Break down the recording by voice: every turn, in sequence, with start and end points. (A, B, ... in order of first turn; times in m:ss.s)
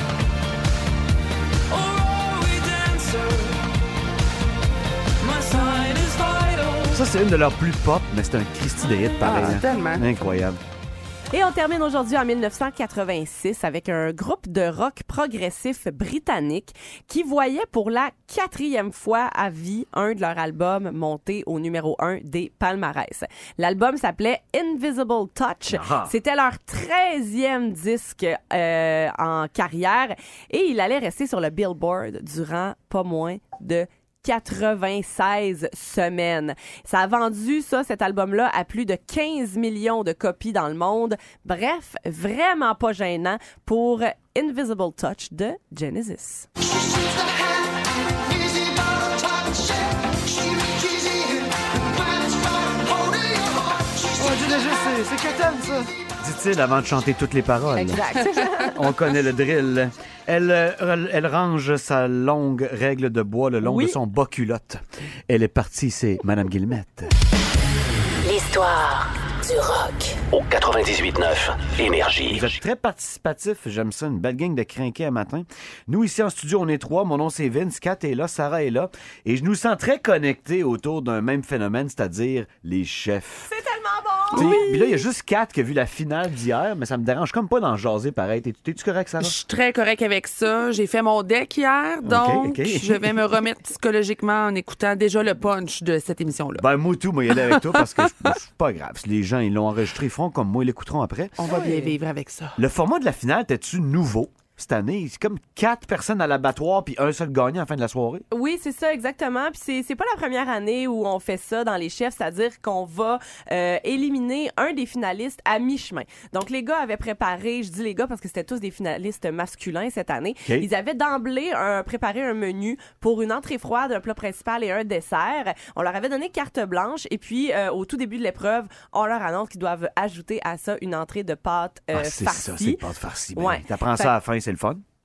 0:06.9-0:10.6 A
0:09.2-0:10.1 B
0:11.3-0:46.5 C
0:25.7-0:26.1 A
0:54.1-0:58.0 A
0:57.8-0:58.7 C
0:57.8-0:58.7 B
0:58.7-1:07.1 A
1:03.6-1:04.0 C
1:08.2-1:10.2 D
1:10.3-1:12.6 E
1:12.3-1:23.5 A
1:23.5-1:24.7 C
1:24.3-1:29.3 A
1:24.3-1:24.8 B
1:29.2-1:36.6 B
1:32.0-1:33.2 A
1:36.6-1:41.5 A
1:37.3-1:37.8 B
1:41.4-1:42.6 B
1:41.4-1:41.9 C
1:42.6-1:48.2 A
1:48.3-2:12.8 C
2:11.9-2:14.8 A
2:13.3-2:14.1 C